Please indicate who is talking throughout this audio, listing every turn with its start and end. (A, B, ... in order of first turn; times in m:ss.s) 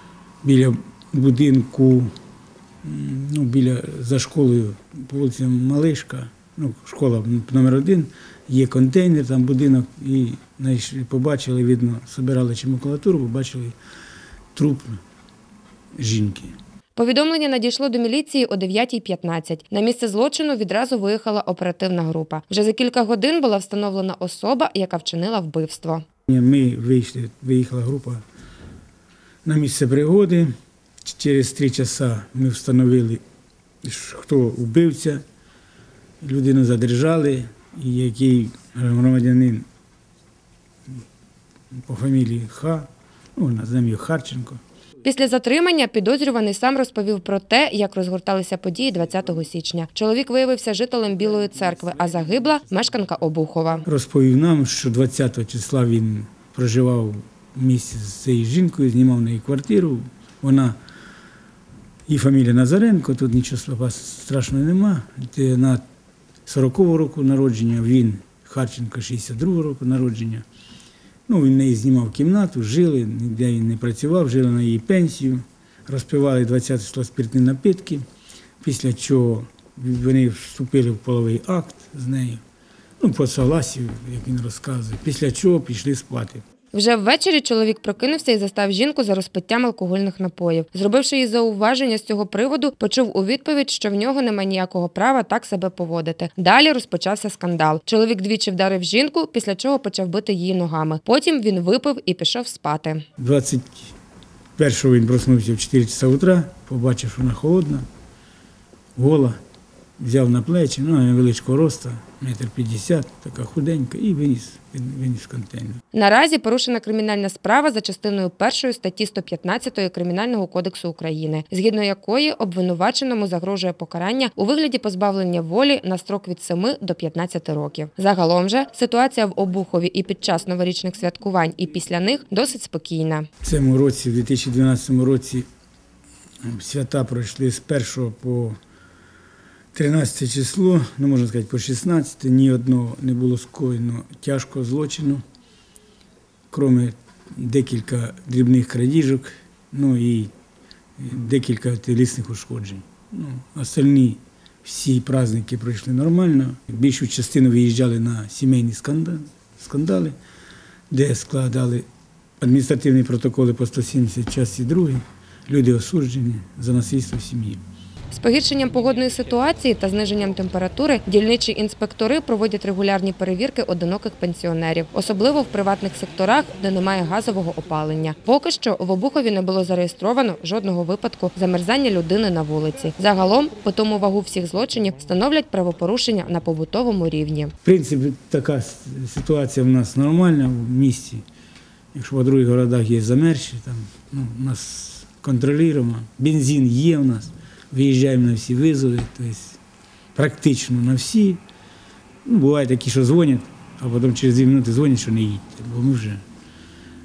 0:00.4-0:02.1 A
0:02.8-0:13.8 A
0:14.6-0:15.0 A
0:16.0-0:16.6 A
0:17.0-0:26.0 B
0:26.3-0:28.2 A
0:29.4-0:30.5 A
0:31.0-0:33.2 A
0:33.8-0:35.2 A
0:36.2-0:39.7 A
0:41.7-0:44.6 A
0:45.0-0:53.9 B
0:53.9-1:00.8 A
1:02.1-1:05.8 A
1:06.5-1:10.5 A
1:11.3-1:18.0 A
1:18.6-1:22.4 A
1:23.0-1:26.4 A
1:26.7-1:43.1 B
1:43.2-1:43.9 A
1:44.6-1:47.9 A
1:49.0-1:49.4 A
1:50.0-1:55.8 A
1:55.9-2:13.3 B
2:13.4-2:15.5 A
2:16.4-2:18.6 A
2:19.7-2:25.2 A
2:26.5-2:30.3 A
2:31.0-2:40.2 A
2:40.9-2:41.9 A
2:42.4-2:47.6 A
2:48.1-3:07.5 B
3:07.6-3:11.2 A
3:11.9-3:19.6 A
3:20.2-3:21.4 A
3:22.2-3:26.2 A